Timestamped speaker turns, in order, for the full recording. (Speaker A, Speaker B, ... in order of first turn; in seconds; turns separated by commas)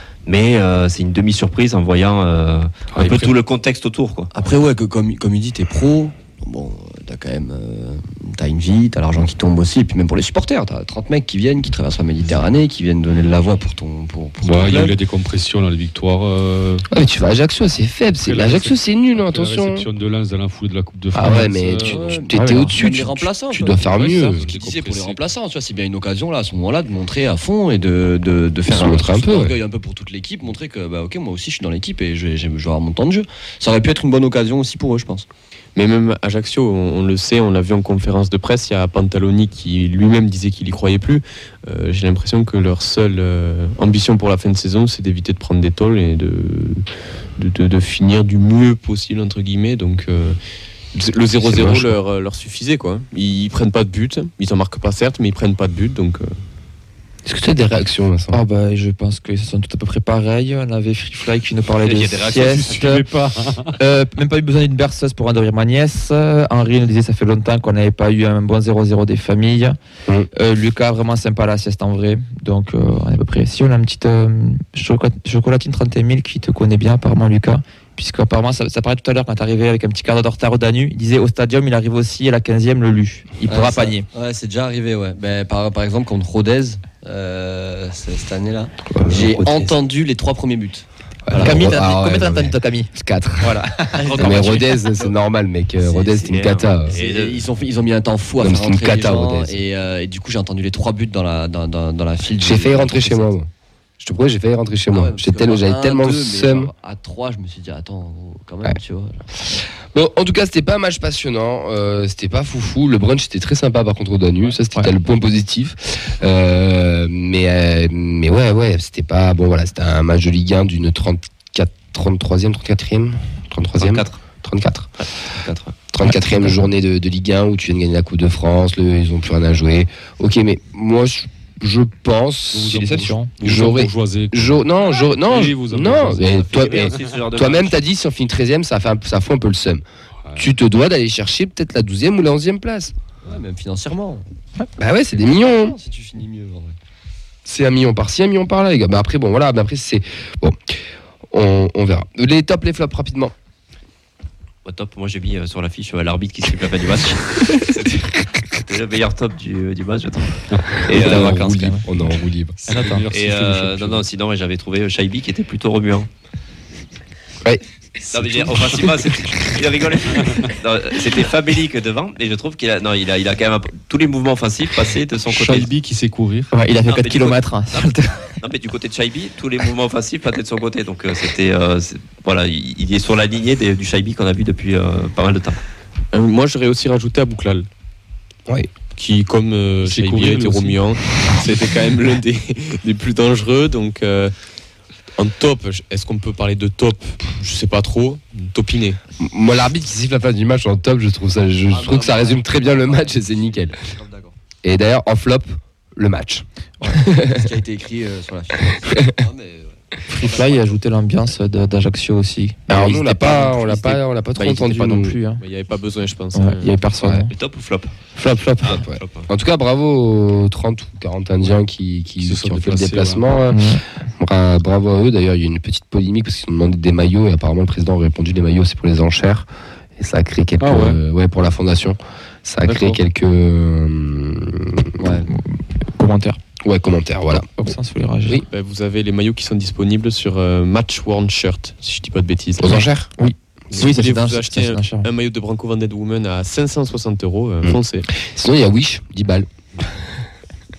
Speaker A: 0.2-4.3, Speaker B: 2.9-3.4, Speaker C: 4.3-14.9, Speaker B: 14.4-16.8, Speaker D: 16.9-19.9, Speaker B: 18.1-22.2, Speaker D: 21.1-24.4, Speaker C: 21.8-23.8, Speaker E: 22.3-22.7, Speaker F: 23.8-25.2, Speaker B: 24.1-24.5, Speaker C: 24.5-35.3, Speaker D: 28.7-29.6, Speaker F: 35.8-46.9, Speaker F: 47.4-50.4, Speaker F: 50.9-56.4, Speaker D: 51.4-51.9, Speaker D: 57.2-58.4, Speaker E: 58.3-63.0, Speaker A: 61.8-62.7, Speaker B: 62.5-63.7, Speaker E: 63.8-69.8, Speaker E: 70.3-84.1, Speaker C: 83.5-91.5, Speaker D: 88.9-89.7, Speaker D: 91.3-93.6, Speaker E: 91.3-92.9, Speaker E: 93.4-94.2, Speaker C: 94.0-95.1, Speaker B: 94.1-94.6, Speaker D: 94.1-97.0, Speaker C: 95.8-96.4, Speaker A: 96.3-97.5, Speaker C: 96.9-103.3, Speaker D: 98.4-99.6, Speaker D: 102.4-103.5, Speaker D: 104.0-106.7, Speaker C: 104.9-109.3, Speaker D: 109.5-124.9, Speaker A: 123.8-124.2, Speaker A: 125.2-125.8, Speaker D: 125.9-139.8, Speaker E: 126.0-126.7, Speaker B: 132.5-136.9, Speaker E: 132.7-133.3, Speaker A: 136.4-137.8, Speaker D: 140.3-142.9, Speaker C: 143.2-144.2, Speaker D: 144.8-145.8, Speaker C: 145.1-146.8, Speaker D: 147.4-150.6, Speaker D: 151.3-153.3, Speaker A: 154.6-161.3, Speaker D: 160.9-162.6, Speaker E: 161.0-161.8, Speaker B: 162.6-164.1, Speaker E: 162.7-163.1, Speaker A: 163.1-166.1, Speaker D: 167.4-168.9, Speaker A: 168.1-175.7, Speaker B: 175.3-176.5, Speaker E: 176.5-178.3, Speaker A: 176.8-185.6, Speaker F: 186.1-187.7, Speaker F: 188.9-194.3, Speaker B: 189.8-190.9, Speaker F: 195.2-199.0, Speaker D: 199.2-203.8, Speaker C: 201.7-204.4, Speaker D: 204.6-207.5, Speaker C: 207.3-210.7, Speaker E: 210.1-215.4, Speaker D: 212.7-215.2, Speaker F: 214.4-216.8, Speaker E: 216.3-217.3, Speaker A: 217.3-217.9, Speaker E: 218.1-218.8, Speaker A: 218.6-219.3, Speaker D: 218.6-229.5, Speaker B: 222.2-223.4, Speaker E: 223.5-223.8, Speaker D: 230.0-235.1, Speaker B: 230.6-231.0, Speaker F: 232.6-233.0, Speaker E: 235.3-236.4, Speaker D: 236.6-237.5, Speaker E: 237.4-238.4, Speaker F: 238.5-242.8, Speaker D: 242.6-243.1, Speaker E: 243.2-245.1, Speaker F: 243.7-248.1, Speaker D: 247.6-250.1